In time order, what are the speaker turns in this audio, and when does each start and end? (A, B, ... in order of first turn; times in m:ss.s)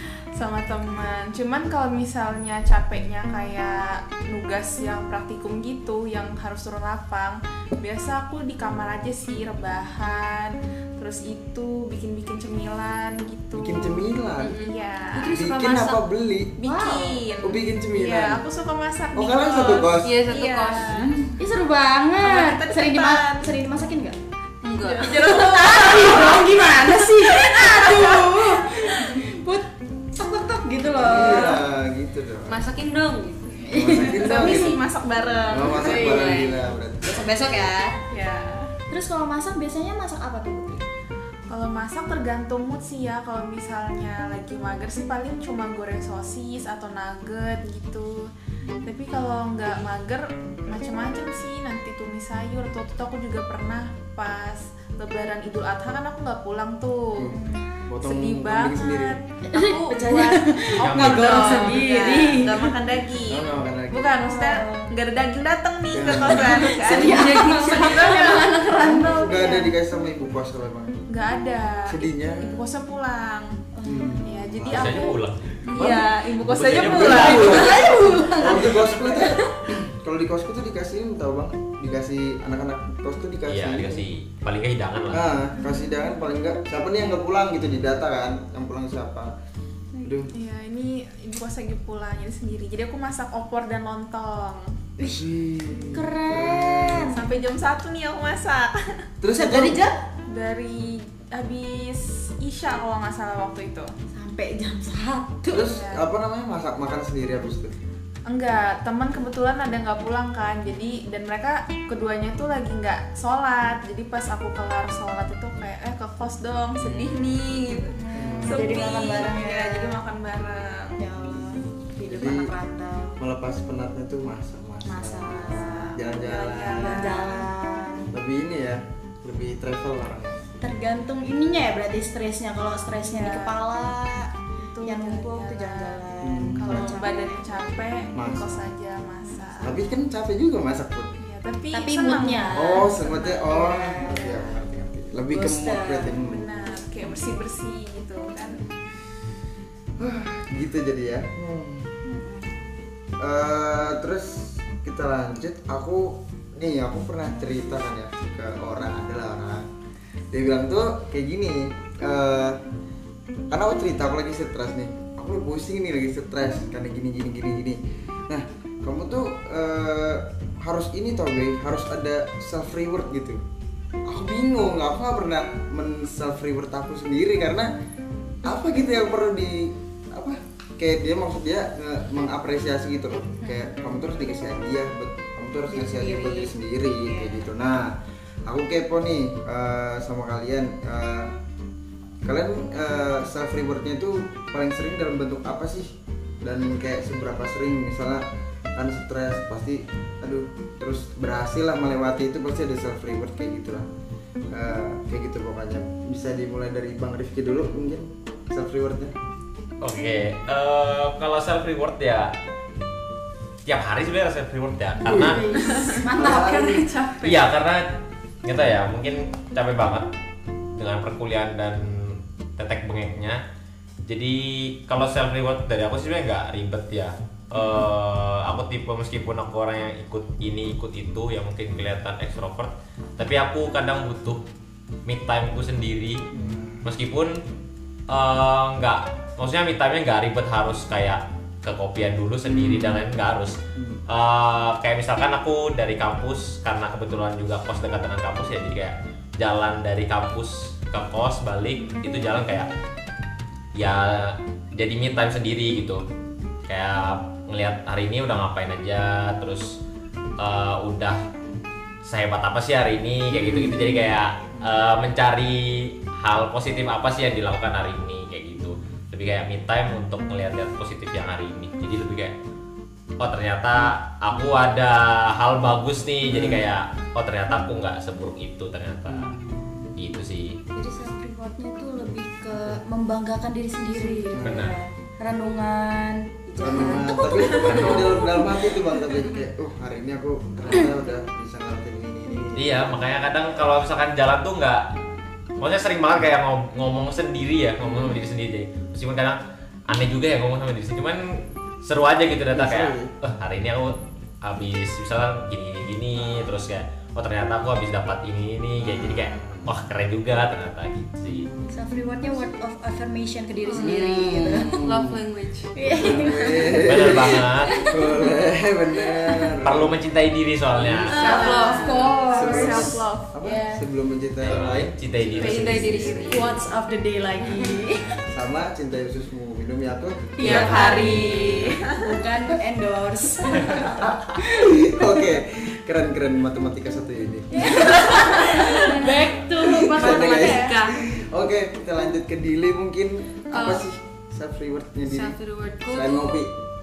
0:00.3-0:15.3 A
0:13.5-0:14.6 B
0:14.4-0:16.0 C
0:15.3-0:16.6 B
0:16.6-0:21.1 A
0:16.6-0:17.2 D
0:17.4-0:18.4 B
0:19.1-0:20.2 B
0:20.0-0:21.1 C
0:21.2-0:24.2 D
0:22.2-0:23.5 A
0:24.6-0:26.4 C
0:24.8-0:28.8 A
0:25.0-0:31.6 D
0:31.0-0:32.6 B
0:32.4-0:33.6 C
0:33.6-0:34.6 D
0:33.7-0:34.8 B
0:34.0-0:36.4 A
0:35.5-0:37.4 B
0:35.7-0:36.4 D
0:35.8-0:36.6 C
0:37.0-0:38.0 D
0:38.1-0:38.7 A
0:38.9-0:40.8 D
0:41.5-0:48.3 A
0:48.8-0:57.4 A
0:57.2-0:59.2 B
0:57.3-0:57.7 D
0:58.0-1:08.5 A
0:59.4-1:02.8 D
1:00.8-1:01.4 E
1:01.3-1:02.1 C
1:03.3-1:04.2 B
1:04.2-1:04.9 D
1:05.9-1:06.7 B
1:06.0-1:09.7 D
1:06.9-1:08.2 C
1:08.7-1:11.0 B
1:11.1-1:13.6 A
1:11.9-1:12.7 B
1:13.7-1:14.5 D
1:13.8-1:15.1 B
1:14.2-1:17.9 A
1:14.6-1:17.7 E
1:15.7-1:16.1 B
1:16.6-1:24.1 B
1:17.3-1:19.5 D
1:23.5-1:25.3 E
1:25.1-1:29.3 B
1:25.6-1:26.0 D
1:30.0-1:30.3 B
1:30.3-1:34.7 A
1:35.0-1:35.2 D
1:35.0-1:37.2 B
1:35.9-1:37.2 D
1:37.1-1:39.0 A
1:39.2-1:39.8 B
1:39.3-1:40.0 D
1:40.3-1:43.9 A
1:44.1-1:45.7 D
1:45.5-1:47.7 B
1:45.6-1:46.0 A
1:48.3-2:01.0 A
1:56.8-1:57.4 B
1:57.9-2:00.0 D
1:58.2-1:59.2 B
2:01.0-2:03.2 D
2:02.0-2:02.5 B
2:03.2-2:07.4 B
2:04.8-2:06.0 D
2:06.0-2:07.5 A
2:06.7-2:08.1 D
2:08.1-2:10.6 B
2:10.6-2:18.1 D
2:13.0-2:13.6 A
2:14.6-2:19.8 A
2:16.2-2:17.0 B
2:18.1-2:18.7 B
2:19.2-2:19.6 D
2:19.6-2:21.1 B
2:21.2-2:24.4 A
2:21.7-2:24.5 D
2:22.5-2:26.7 B
2:25.3-2:26.2 D
2:26.2-2:28.6 A
2:30.0-2:31.9 B
2:32.0-2:32.5 D
2:33.2-2:39.7 B
2:40.3-2:42.6 B
2:43.5-2:53.4 B
2:54.0-2:57.7 B
2:58.4-3:07.9 B
3:03.4-3:03.7 D
3:05.7-3:07.5 D
3:08.4-3:11.3 B
3:12.2-3:18.2 B
3:18.8-3:23.8 B
3:24.5-3:29.1 B
3:29.8-3:32.3 E
3:33.6-3:35.4 E
3:35.0-3:36.8 B
3:35.1-3:37.1 D
3:35.6-3:36.1 A
3:36.7-3:37.4 A
3:37.2-3:37.9 E
3:38.4-3:40.1 E
3:40.8-3:43.4 E
3:44.1-3:54.4 E
3:55.0-3:56.2 E
3:56.3-3:56.8 B
3:56.8-3:57.4 E
3:58.1-4:12.7 E
4:02.5-4:03.0 B
4:03.8-4:04.0 B
4:13.7-4:16.0 E
4:16.7-4:19.8 E
4:20.4-4:21.2 E
4:22.0-4:32.3 E
4:23.3-4:24.6 B
4:33.2-4:39.4 E
4:36.2-4:36.7 B
4:39.1-4:39.9 B
4:40.0-4:40.6 E
4:40.7-4:47.9 D
4:42.5-4:42.8 B
4:44.3-4:44.7 B
4:44.4-4:44.8 E
4:46.6-4:52.8 B
4:47.2-4:48.5 E
4:49.1-4:49.4 C
4:52.5-4:54.8 E
4:55.6-5:11.5 E
5:02.5-5:03.1 B
5:06.2-5:06.6 B
5:08.8-5:09.7 B
5:11.3-5:12.5 B
5:11.7-5:14.8 D
5:13.7-5:15.7 C
5:13.8-5:15.2 B
5:15.7-5:18.3 D
5:15.9-5:20.0 B
5:16.8-5:17.9 E
5:19.6-5:21.4 E
5:20.8-5:21.0 B
5:21.0-5:22.2 C
5:21.0-5:23.8 D
5:21.2-5:23.3 A
5:22.2-5:26.5 B
5:24.4-5:26.4 E
5:25.4-5:26.5 C
5:26.2-5:28.1 D
5:28.0-5:31.8 B
5:30.4-5:35.1 D
5:30.4-5:31.8 C
5:30.5-5:32.1 A
5:33.6-5:38.2 B
5:37.5-5:40.8 D
5:37.8-5:41.1 C
5:39.6-5:46.5 B
5:43.5-5:43.8 C
5:45.1-5:46.4 C